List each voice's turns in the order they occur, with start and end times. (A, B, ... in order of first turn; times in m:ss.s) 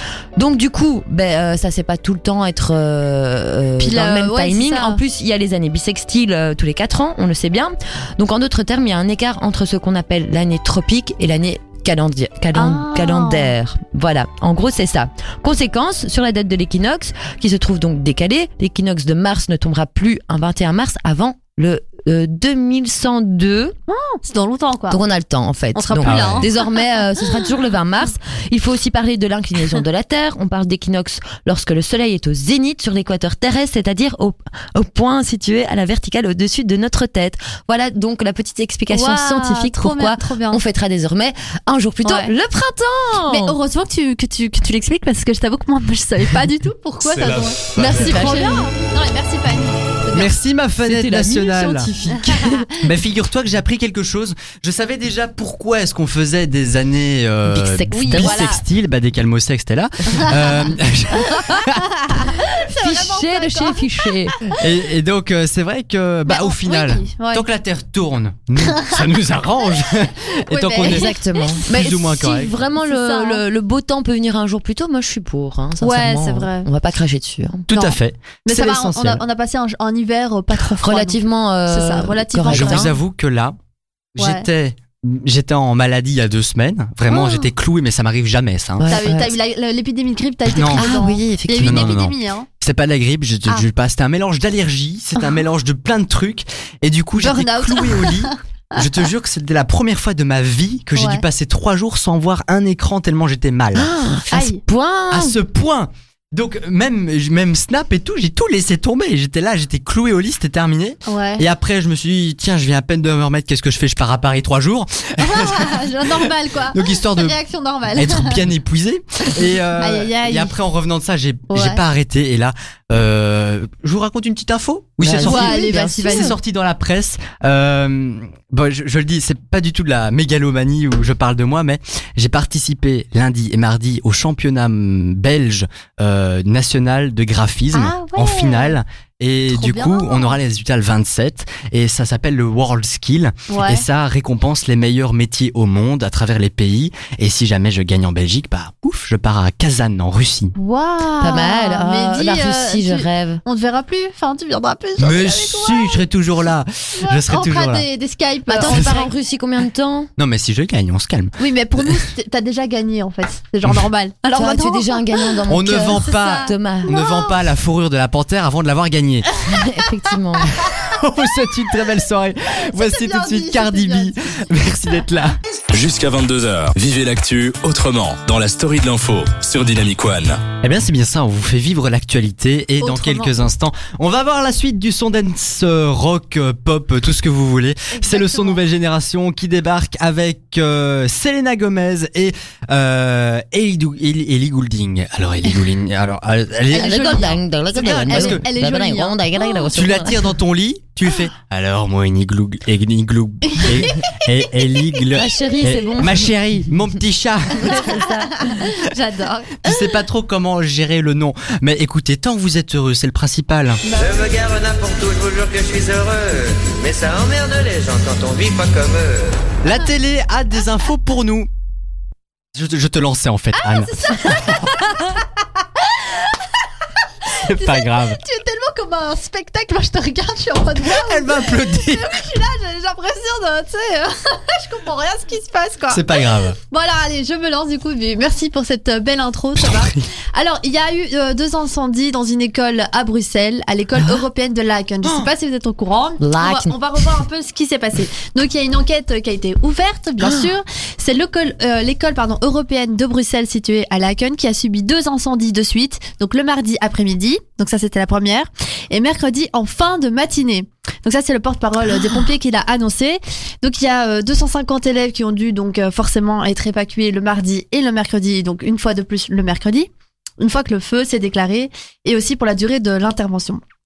0:00.4-0:23.8 A
0:03.8-0:05.0 B
0:12.6-0:13.5 B
0:23.9-0:25.0 B
0:24.9-0:43.6 A
0:25.8-0:27.0 B
0:26.0-0:26.5 C
0:38.9-0:40.6 B
0:42.0-0:42.3 B
0:43.3-0:50.3 B
0:47.1-0:48.1 D
0:47.8-0:48.7 A
0:50.1-0:51.9 C
0:50.8-0:52.7 A
0:52.7-1:01.9 C
0:57.5-0:58.4 A
0:57.9-0:58.6 B
1:02.0-1:04.6 B
1:02.6-1:04.4 A
1:04.6-1:11.1 C
1:06.3-1:07.4 B
1:08.7-1:09.0 B
1:10.5-1:11.5 B
1:10.8-1:17.7 A
1:11.7-1:12.6 C
1:12.8-1:13.4 B
1:15.8-1:16.7 B
1:17.7-1:19.2 C
1:17.7-1:22.9 B
1:20.8-1:22.9 A
1:22.5-1:23.6 C
1:24.1-1:28.9 C
1:24.2-1:24.5 B
1:27.1-1:27.5 B
1:28.8-1:29.3 A
1:28.9-1:32.5 B
1:30.5-1:30.9 C
1:30.7-1:31.9 A
1:31.6-1:43.9 C
1:37.2-1:38.9 B
1:40.9-1:41.2 B
1:43.8-1:45.4 A
1:44.3-1:44.6 B
1:45.1-1:57.4 C
1:51.1-1:51.4 B
1:55.2-1:58.4 B
1:57.9-2:30.6 C
1:59.4-2:00.5 B
2:01.5-2:01.8 B
2:05.0-2:06.3 A
2:05.2-2:06.4 B
2:17.7-2:18.8 B
2:19.5-2:20.4 B
2:23.5-2:23.8 B
2:30.6-2:36.0 B
2:31.2-2:33.4 A
2:35.0-2:37.9 C
2:37.0-2:39.1 B
2:38.5-2:40.1 A
2:38.6-2:39.0 C
2:40.2-2:42.1 C
2:41.4-2:45.4 B
2:44.3-2:46.9 A
2:45.5-2:49.3 C
2:45.9-2:47.4 B
2:49.4-2:50.6 A
2:50.6-2:55.4 C
2:52.6-2:54.4 B
2:55.7-3:00.4 D
3:00.6-3:18.4 C
3:02.8-3:03.4 B
3:07.9-3:08.6 B
3:16.7-3:19.6 B
3:16.7-3:20.2 A
3:19.7-3:28.0 C
3:23.5-3:24.2 B
3:25.1-3:26.3 A
3:27.6-3:28.6 A
3:27.7-3:29.9 B
3:29.6-3:33.8 C
3:33.8-3:34.3 B
3:33.9-3:39.5 E
3:39.6-3:41.5 C
3:42.5-3:44.7 C
3:43.6-3:46.4 B
3:47.2-4:33.6 B
3:47.3-3:48.2 C
3:50.8-3:52.2 C
3:55.9-3:56.6 C
3:59.6-4:00.0 C
4:06.2-4:06.7 A